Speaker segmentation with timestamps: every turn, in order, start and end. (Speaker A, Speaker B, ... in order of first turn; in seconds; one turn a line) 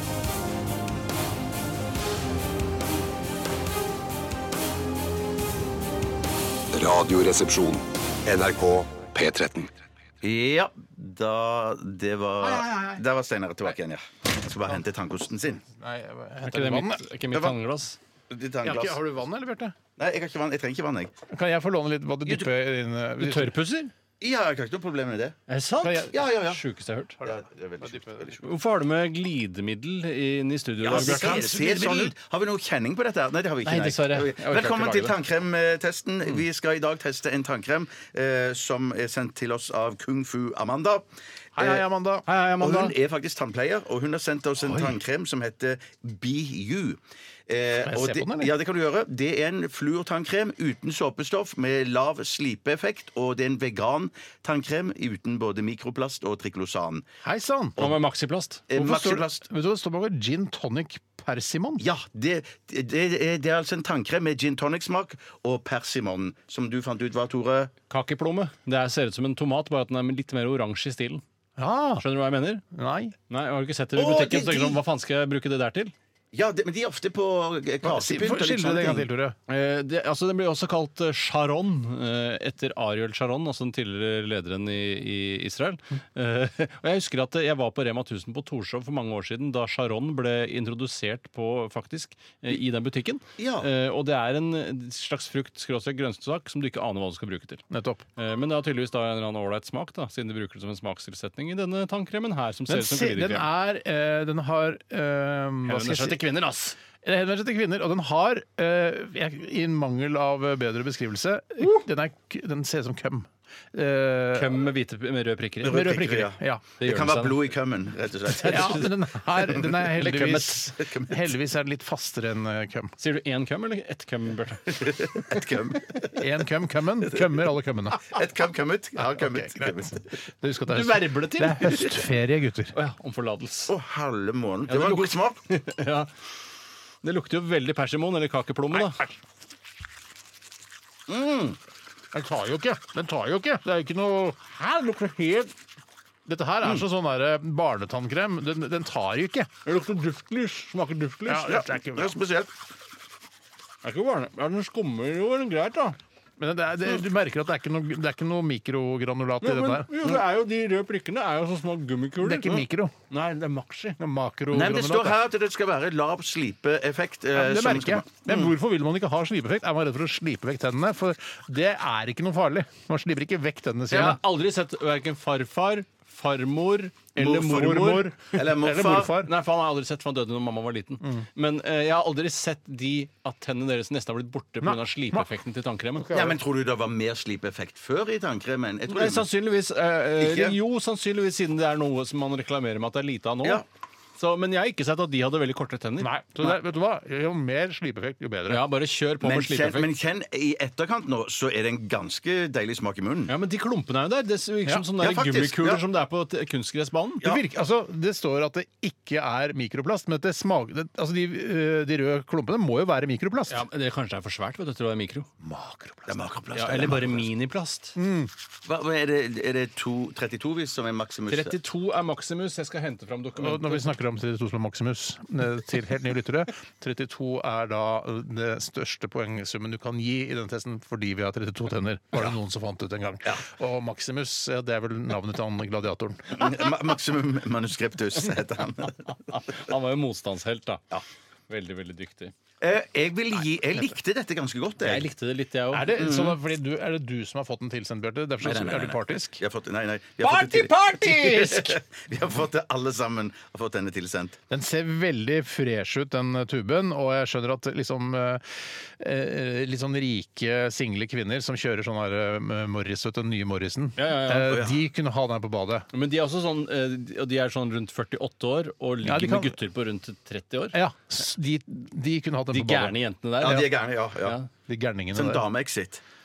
Speaker A: 6.7-9.7
Speaker B: 10.2-15.6
Speaker C: 12.4-13.0
Speaker C: 15.7-17.1
Speaker D: 16.4-18.0
Speaker B: 18.3-19.0
Speaker C: 18.6-19.8
Speaker B: 20.0-21.1
Speaker C: 21.3-23.6
Speaker B: 22.3-22.5
Speaker D: 23.2-23.9
Speaker B: 24.2-25.4
Speaker D: 25.5-27.2
Speaker C: 25.8-26.2
Speaker B: 26.1-26.6
Speaker C: 27.2-28.3
Speaker B: 27.2-28.4
Speaker D: 28.4-31.5
Speaker B: 30.8-41.0
Speaker C: 30.9-32.1
Speaker D: 33.6-35.1
Speaker C: 41.6-42.3
Speaker D: 42.3-42.9
Speaker B: 42.6-57.0
Speaker C: 44.6-45.0
Speaker C: 47.8-48.5
Speaker C: 57.2-57.8
Speaker D: 57.8-58.7
Speaker B: 58.7-59.4
Speaker C: 58.8-61.8
Speaker B: 61.8-67.7
Speaker D: 67.9-71.2
Speaker C: 71.6-72.0
Speaker D: 72.0-72.6
Speaker C: 72.7-73.2
Speaker D: 73.3-75.9
Speaker B: 74.0-74.8
Speaker B: 76.3-79.1
Speaker C: 77.8-79.4
Speaker D: 79.5-97.6
Speaker B: 93.4-93.7
Speaker C: 97.7-98.0
Speaker D: 98.2-103.5
Speaker C: 102.7-106.2
Speaker D: 105.7-106.8
Speaker C: 107.0-114.5
Speaker D: 114.3-115.8
Speaker B: 115.6-118.9
Speaker C: 115.7-116.6
Speaker D: 116.8-117.5
Speaker D: 118.4-118.9
Speaker C: 118.4-123.0
Speaker B: 119.5-121.3
Speaker D: 120.1-120.4
Speaker D: 123.0-125.4
Speaker B: 124.7-126.3
Speaker C: 126.1-128.2
Speaker B: 127.1-127.4
Speaker B: 128.0-130.0
Speaker C: 129.0-132.8
Speaker D: 130.7-132.1
Speaker D: 132.7-133.7
Speaker B: 133.7-135.4
Speaker D: 134.7-136.1
Speaker D: 137.0-139.1
Speaker C: 138.7-139.1
Speaker B: 141.1-141.6
Speaker C: 142.1-145.6
Speaker C: 146.3-149.5
Speaker D: 149.7-151.6
Speaker C: 151.3-152.2
Speaker B: 151.5-152.5
Speaker D: 153.8-156.0
Speaker C: 156.4-160.2
Speaker D: 159.4-162.6
Speaker C: 162.2-162.9
Speaker D: 163.1-164.0
Speaker C: 164.0-165.2
Speaker B: 164.5-168.5
Speaker C: 167.3-174.2
Speaker D: 173.9-178.1
Speaker C: 177.2-179.3
Speaker B: 178.3-179.1
Speaker D: 179.2-186.1
Speaker C: 184.6-185.3
Speaker C: 186.0-186.4
Speaker B: 186.1-189.3
Speaker D: 188.9-193.6
Speaker B: 190.2-190.6
Speaker D: 194.2-196.1
Speaker C: 196.0-198.6
Speaker D: 198.5-199.9
Speaker B: 199.2-203.4
Speaker D: 203.3-207.2
Speaker B: 204.9-205.8
Speaker C: 207.2-213.6
Speaker D: 213.5-215.3
Speaker C: 215.4-216.3
Speaker B: 216.1-217.3
Speaker D: 216.5-218.0
Speaker C: 218.0-218.3
Speaker B: 218.7-221.6
Speaker D: 221.3-223.9
Speaker C: 223.4-236.6
Speaker B: 236.3-239.1
Speaker D: 239.1-240.8
Speaker D: 241.5-242.3
Speaker B: 242.6-245.1
Speaker D: 244.8-246.0
Speaker C: 245.7-249.4
Speaker B: 246.0-246.4
Speaker B: 248.4-254.4
Speaker D: 250.2-251.8
Speaker C: 254.5-265.9
Speaker D: 264.0-264.7
Speaker B: 264.5-264.8
Speaker D: 265.9-270.8
Speaker C: 269.0-269.6
Speaker C: 270.7-272.9
Speaker D: 272.5-274.5
Speaker B: 273.4-274.4
Speaker C: 274.7-275.4
Speaker B: 275.1-276.0